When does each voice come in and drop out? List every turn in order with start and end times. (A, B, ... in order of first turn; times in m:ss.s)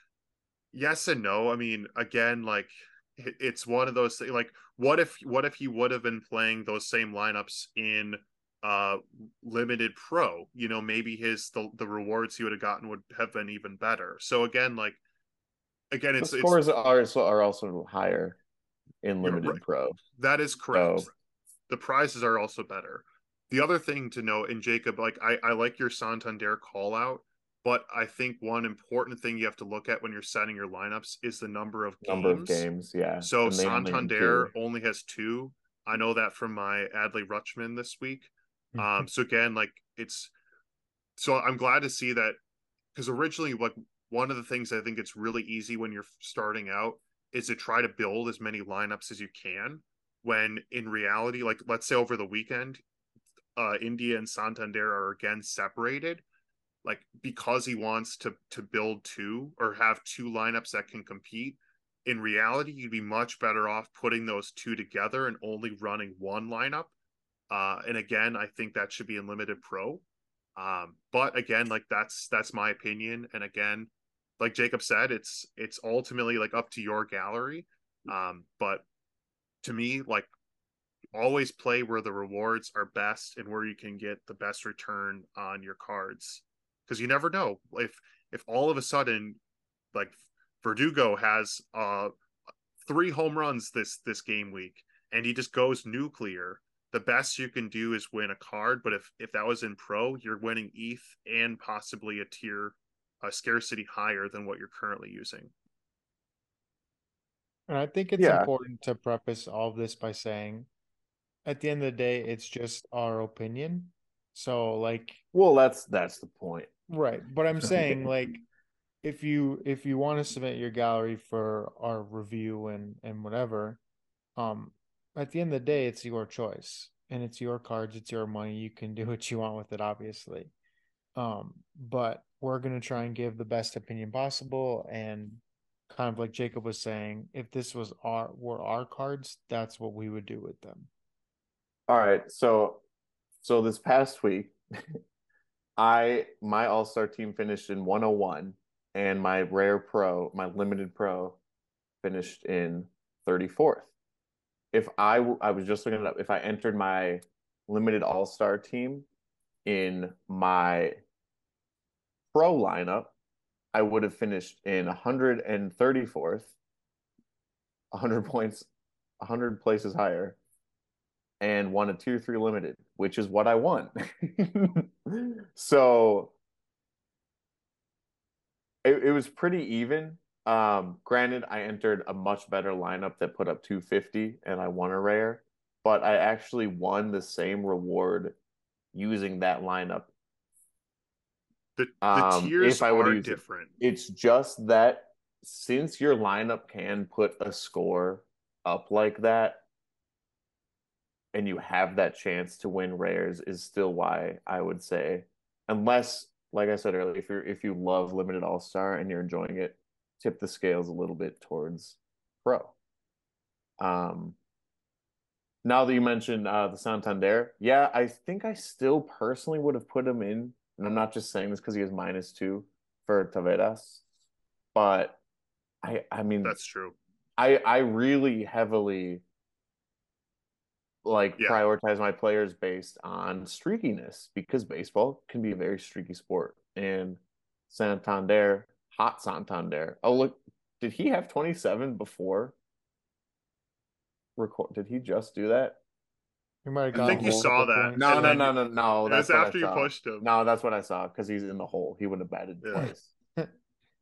0:00.7-0:15.0 A
0:15.9-0:16.6 A
0:16.2-0:18.4 B
0:19.0-0:20.0 B
0:19.2-0:19.6 A
0:20.2-0:21.1 A
0:20.7-0:21.1 B
0:21.7-0:32.7 A
0:32.0-0:34.5 B
0:33.2-0:40.3 A
0:38.7-0:39.1 C
0:41.2-0:42.4 A
0:42.9-0:52.8 A
0:53.6-0:56.2 A
0:56.8-1:06.9 A
1:07.5-1:10.0 A
1:10.6-1:18.8 A
1:19.6-1:20.3 A
1:21.1-1:29.4 A
1:29.9-1:32.1 A
1:32.8-1:45.5 A
1:47.7-1:50.7 C
1:48.2-1:48.5 B
1:51.4-1:55.2 C
1:55.3-1:56.7 B
1:56.9-1:58.4 C
1:57.6-1:58.1 B
1:59.0-2:03.8 C
2:04.4-2:10.5 C
2:11.1-2:20.9 C
2:21.9-2:22.8 B
2:23.4-2:25.0 B
2:25.8-2:31.4 B
2:32.0-2:33.9 B
2:34.7-2:39.1 B
2:39.6-2:41.0 B
2:42.3-2:43.1 B
2:43.7-2:46.6 B
2:47.9-2:48.7 B
2:49.2-2:50.4 B
2:51.4-2:56.4 B
2:58.8-3:08.4 B
3:08.9-3:10.1 B
3:11.8-3:13.7 A
3:12.0-3:19.6 B
3:21.3-3:32.7 B
3:33.8-3:34.4 B
3:35.6-3:44.0 B
3:44.7-3:45.2 B
3:45.8-3:46.6 B
3:46.4-3:47.0 A
3:47.4-3:49.2 B
3:51.0-4:02.6 B
4:04.4-4:05.8 B
4:06.6-4:08.5 C
4:06.9-4:13.1 B
4:07.0-4:10.3 A
4:12.6-4:12.9 A